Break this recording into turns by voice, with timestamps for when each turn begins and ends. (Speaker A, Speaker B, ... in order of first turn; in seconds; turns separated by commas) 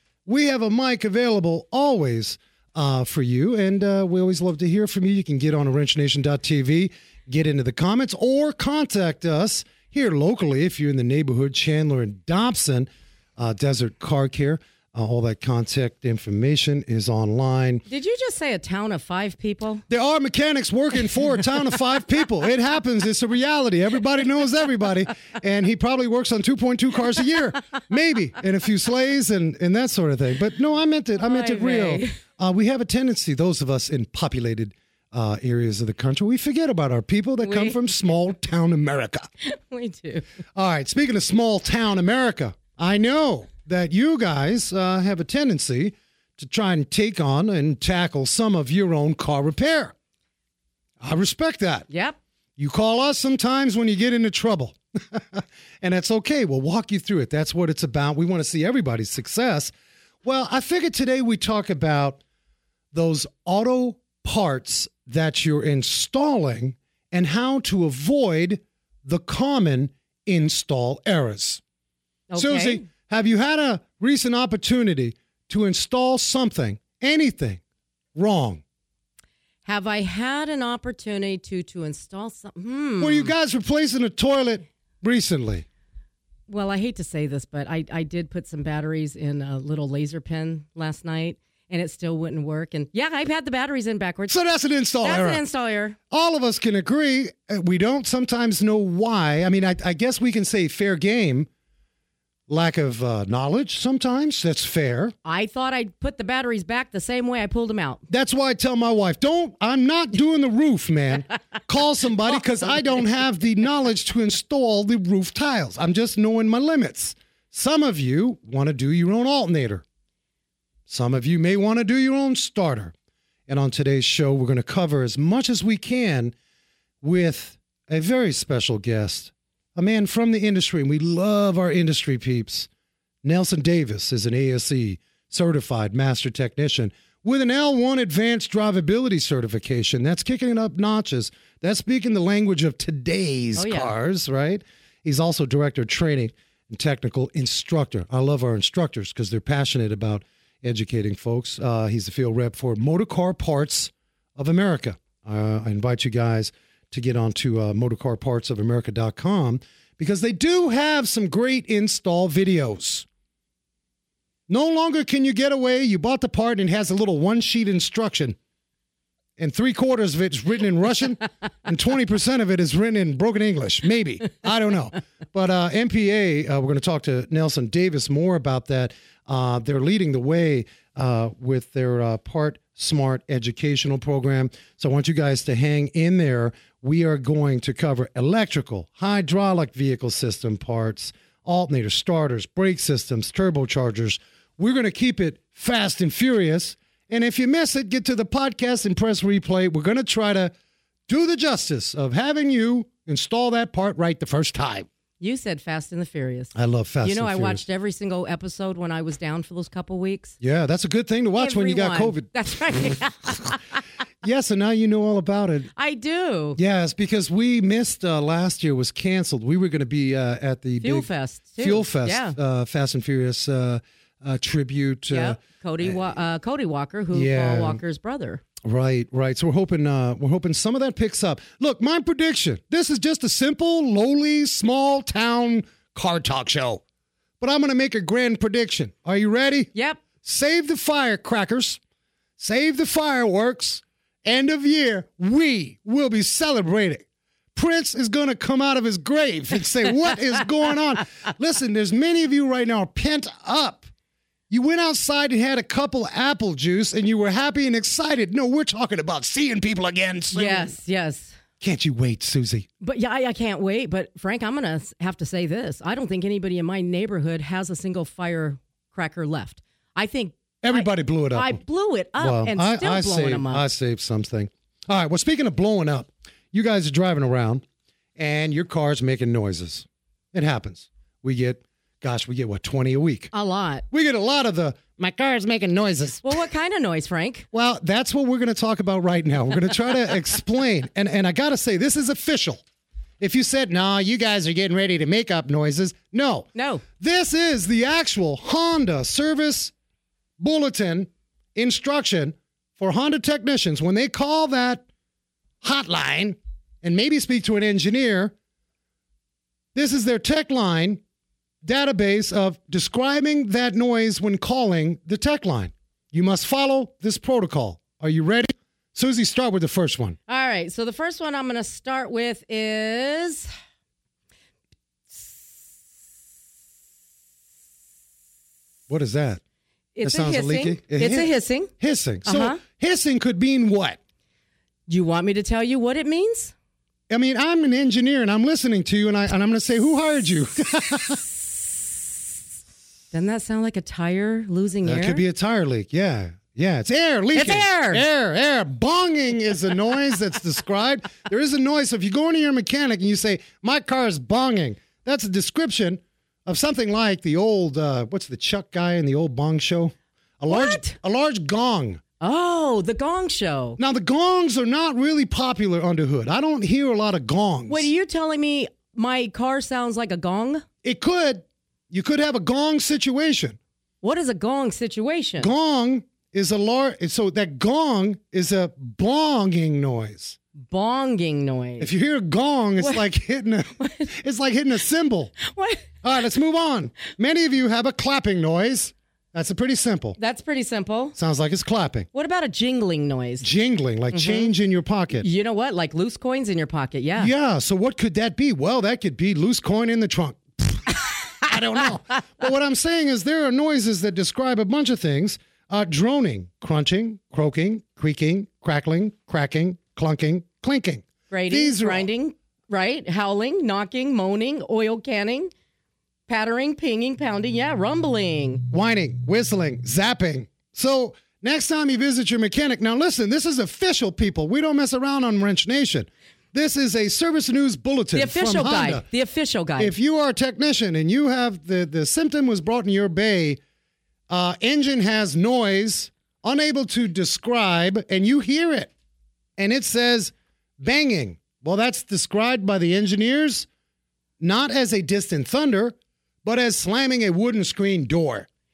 Speaker A: 0.3-17.8, Speaker B: 17.9-19.8, Speaker A: 19.9-39.3, Speaker B: 31.2-32.1, Speaker B: 37.4-37.8, Speaker B: 39.4-40.2, Speaker A: 40.5-49.9, Speaker A: 51.0-51.9, Speaker B: 51.9-52.2, Speaker A: 52.6-59.7, Speaker A: 60.2-62.2, Speaker A: 62.9-71.6, Speaker B: 72.3-72.8, Speaker A: 72.4-77.6, Speaker A: 78.2-78.6, Speaker B: 79.7-83.3, Speaker A: 83.0-85.7, Speaker B: 86.5-94.4, Speaker A: 94.3-95.4, Speaker B: 95.0-96.0, Speaker A: 96.1-101.5, Speaker A: 102.5-105.1, Speaker B: 105.2-108.0, Speaker A: 108.1-119.8, Speaker A: 120.9-122.9, Speaker A: 123.5-126.3, Speaker A: 127.0-132.7, Speaker A: 133.2-163.1, Speaker B: 143.6-143.9, Speaker A: 164.5-168.4, Speaker A: 169.4-200.5, Speaker A: 201.1-204.9, Speaker B: 205.2-210.4, Speaker A: 206.6-207.7, Speaker A: 210.4-212.3, Speaker B: 211.4-213.6, Speaker A: 214.2-215.7, Speaker B: 215.8-216.6, Speaker A: 216.6-226.1, Speaker B: 220.8-222.4, Speaker B: 225.1-228.4, Speaker A: 227.1-227.8, Speaker A: 228.6-236.8, Speaker A: 237.4-241.8, Speaker B: 239.8-240.0, Speaker A: 242.4-253.9, Speaker A: 254.5-260.7, Speaker B: 260.3-261.4, Speaker A: 261.6-262.7, Speaker B: 262.8-273.6, Speaker A: 270.6-271.6, Speaker A: 272.2-277.6, Speaker A: 278.2-283.3, Speaker B: 283.3-283.9, Speaker A: 283.9-286.4, Speaker B: 286.2-287.5, Speaker A: 287.5-292.6, Speaker A: 293.2-299.7, Speaker B: 296.6-296.8, Speaker A: 300.4-304.9, Speaker A: 305.6-308.3, Speaker A: 309.8-311.0, Speaker A: 311.6-320.2, Speaker B: 320.3-323.5, Speaker A: 328.9-329.4, Speaker B: 329.9-331.7, Speaker A: 330.0-334.0, Speaker B: 332.3-332.6, Speaker B: 334.9-336.5, Speaker A: 337.1-341.2, Speaker B: 343.1-345.2, Speaker A: 344.8-362.0, Speaker B: 347.4-348.1, Speaker B: 360.5-361.0, Speaker B: 362.2-363.8, Speaker A: 363.8-367.9, Speaker B: 367.7-370.6, Speaker A: 370.8-373.6, Speaker B: 374.0-375.5, Speaker A: 375.4-380.4, Speaker B: 380.6-381.9, Speaker A: 381.8-385.3, Speaker B: 385.5-385.9, Speaker A: 386.0-390.2, Speaker B: 390.2-391.1, Speaker A: 391.2-392.1, Speaker B: 392.1-393.5, Speaker A: 393.4-395.3, Speaker B: 394.1-394.5, Speaker B: 395.2-397.3, Speaker A: 397.2-412.1, Speaker B: 411.3-415.5, Speaker B: 416.3-418.6, Speaker A: 418.7-429.1, Speaker B: 428.1-429.9, Speaker A: 429.8-433.6, Speaker A: 434.3-438.9, Speaker A: 439.6-443.7, Speaker A: 444.4-448.5